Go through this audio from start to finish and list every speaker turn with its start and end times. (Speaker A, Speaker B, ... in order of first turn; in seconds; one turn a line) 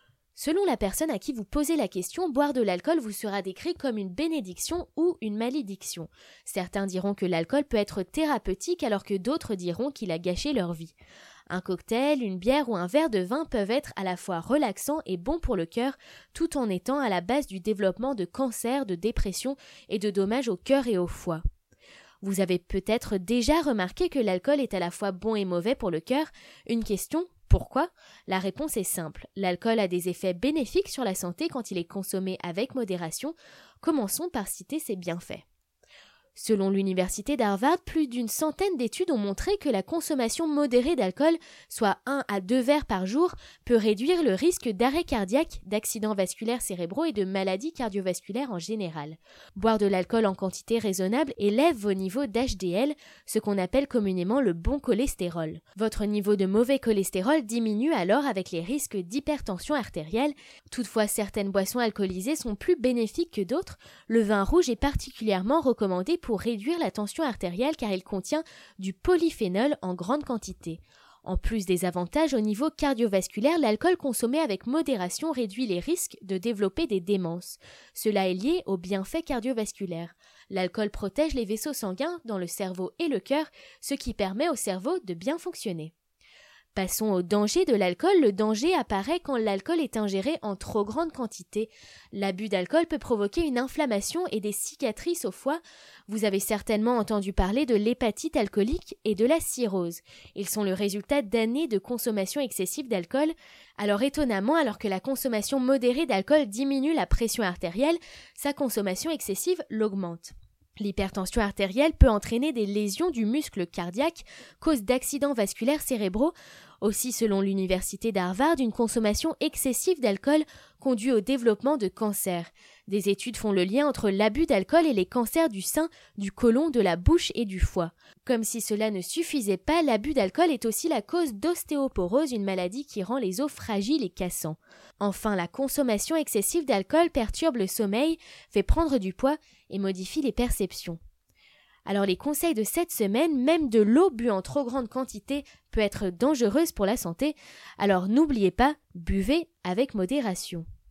Speaker A: 0.4-10.9
Speaker A: 11.5-21.4
Speaker A: 22.2-35.5
Speaker A: 36.4-85.9
Speaker A: 86.8-141.0
Speaker A: 141.9-150.7